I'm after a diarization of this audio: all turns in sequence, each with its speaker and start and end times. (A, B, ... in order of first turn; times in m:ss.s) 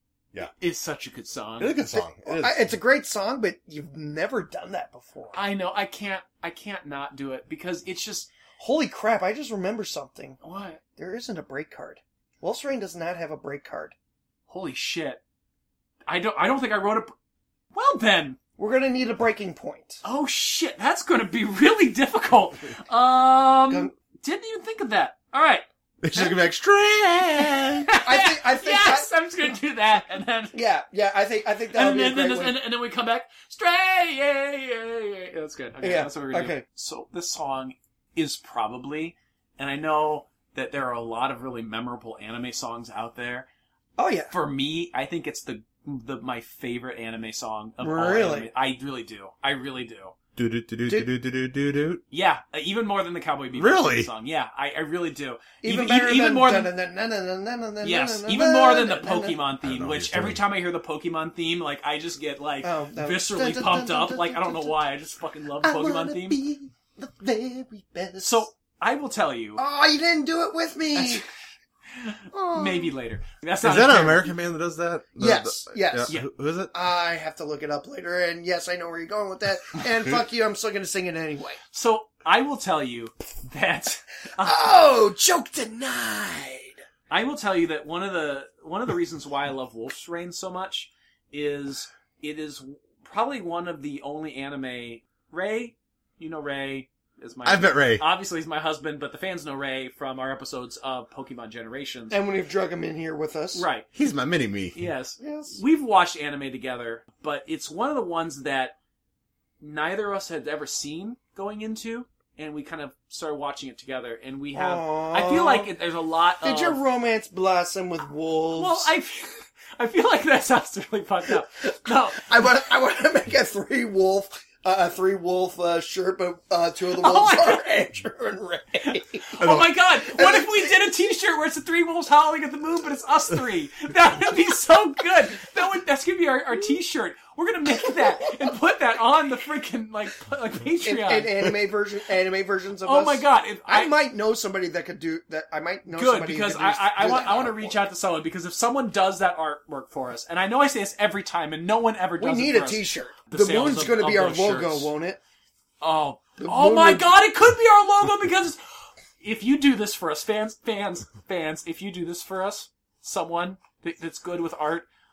0:00.4-0:01.8 A
0:01.6-0:02.7 B
0:02.2-0:05.4 C
0:05.3-0:08.3 A
0:08.6-0:10.4 C
0:10.4-0:10.8 A
0:11.0-0:13.9 C
0:14.5-0:15.2 A
0:16.1-0:17.1 A
0:17.7-0:18.4 A
0:18.6-0:20.0 C
0:20.0-0:25.6 A
0:26.0-0:27.9 B
0:27.8-0:30.6 A
0:28.0-0:29.1 C
0:30.5-0:32.6 C
0:31.7-0:43.5 A
0:35.8-0:36.6 C
0:44.0-0:44.3 C
0:44.3-0:50.1 A
0:47.8-0:48.5 C
0:50.4-0:52.0 B
0:52.1-0:56.7 A
0:53.5-0:54.1 B
0:55.6-0:59.4 C
0:57.8-1:06.4 A
0:59.6-1:00.4 B
1:02.6-1:04.8 C
1:05.6-1:08.5 C
1:08.2-1:09.6 A
1:09.6-1:11.2 C
1:10.9-1:11.2 A
1:11.9-1:14.4 A
1:12.3-1:12.9 C
1:13.6-1:16.7 B
1:15.2-1:16.1 C
1:16.7-1:21.6 C
1:21.7-1:24.8 A
1:24.4-1:26.8 C
1:27.1-1:42.2 A
1:37.4-1:38.0 B
1:42.1-1:43.7 C
1:43.5-1:43.9 A
1:43.9-1:44.8 B
1:44.7-1:48.7 A
1:45.2-1:45.6 C
1:49.6-1:56.8 A
1:54.5-1:55.7 C
1:56.4-1:58.9 C
1:58.5-2:02.3 A
2:01.7-2:09.4 C
2:06.9-2:07.7 A
2:08.9-2:21.3 A
2:09.4-2:09.7 B
2:10.0-2:10.7 C
2:20.8-2:27.8 C
2:22.8-2:24.0 A
2:25.9-2:34.9 A
2:32.2-2:35.2 C
2:35.8-2:38.6 A
2:36.4-2:37.1 C
2:39.2-2:44.8 A